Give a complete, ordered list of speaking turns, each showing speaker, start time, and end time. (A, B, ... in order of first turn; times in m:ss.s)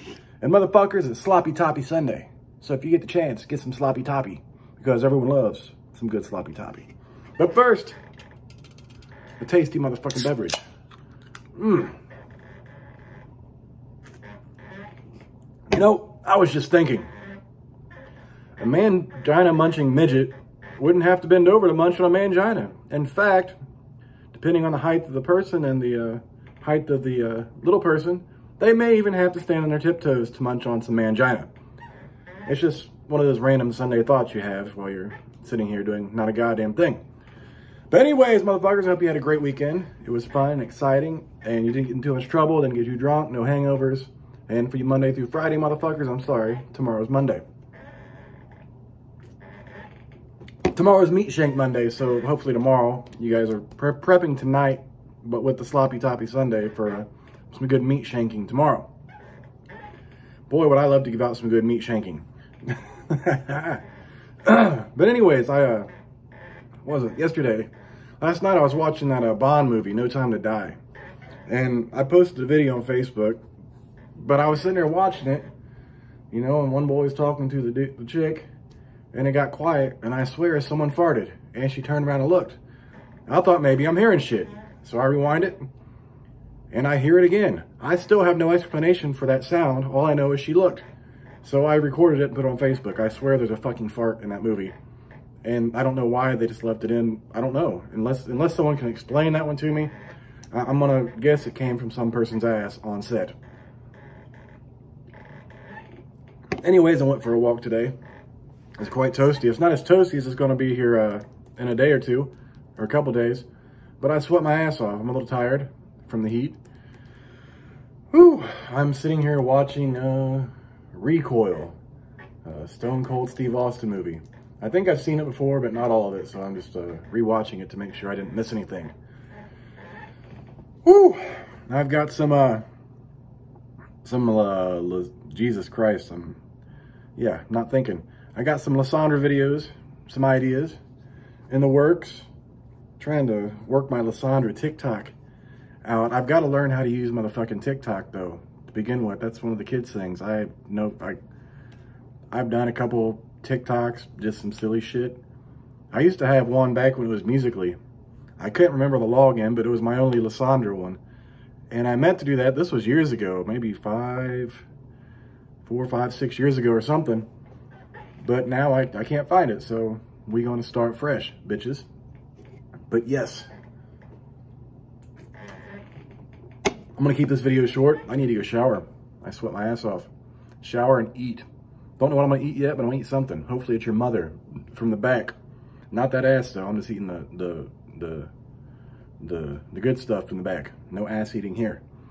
0:00.4-0:08.0 A
0:09.4-0:10.6 A
0:11.6-0:11.9 A
0:15.7-0:17.1 A
0:18.6-0:23.6 A
0:24.3-0:31.5 A
0:32.5-0:37.0 A
0:37.9-0:47.4 A
0:50.7-0:58.9 A
1:00.5-1:03.8 A
1:04.4-1:05.9 A
1:06.8-1:07.7 A
1:08.2-1:10.8 A
1:11.5-1:13.4 A
1:14.2-1:15.5 A
1:16.3-1:18.5 A
1:19.1-1:22.6 A
1:23.3-1:25.6 A
1:26.7-1:30.9 A
1:31.4-1:34.7 A
1:35.4-1:39.9 A
1:40.5-1:43.4 A
1:46.6-1:48.0 A
1:48.8-1:53.4 A
1:54.0-1:56.6 A
1:58.1-2:01.8 A
2:02.4-2:08.9 A
2:10.8-2:12.6 A
2:14.0-2:16.4 A
2:17.2-2:20.8 A
2:21.5-2:22.3 A
2:23.0-2:25.1 A
2:25.8-2:31.2 A
2:32.3-2:35.2 A
2:35.9-2:37.8 A
2:38.4-2:41.0 A
2:41.7-2:44.7 A
2:45.6-2:47.3 A
2:48.2-2:51.9 A
2:52.9-2:53.5 A
2:57.0-3:00.1 A
3:00.6-3:01.5 A
3:02.0-3:05.3 A
3:05.9-3:08.3 A
3:09.2-3:11.8 A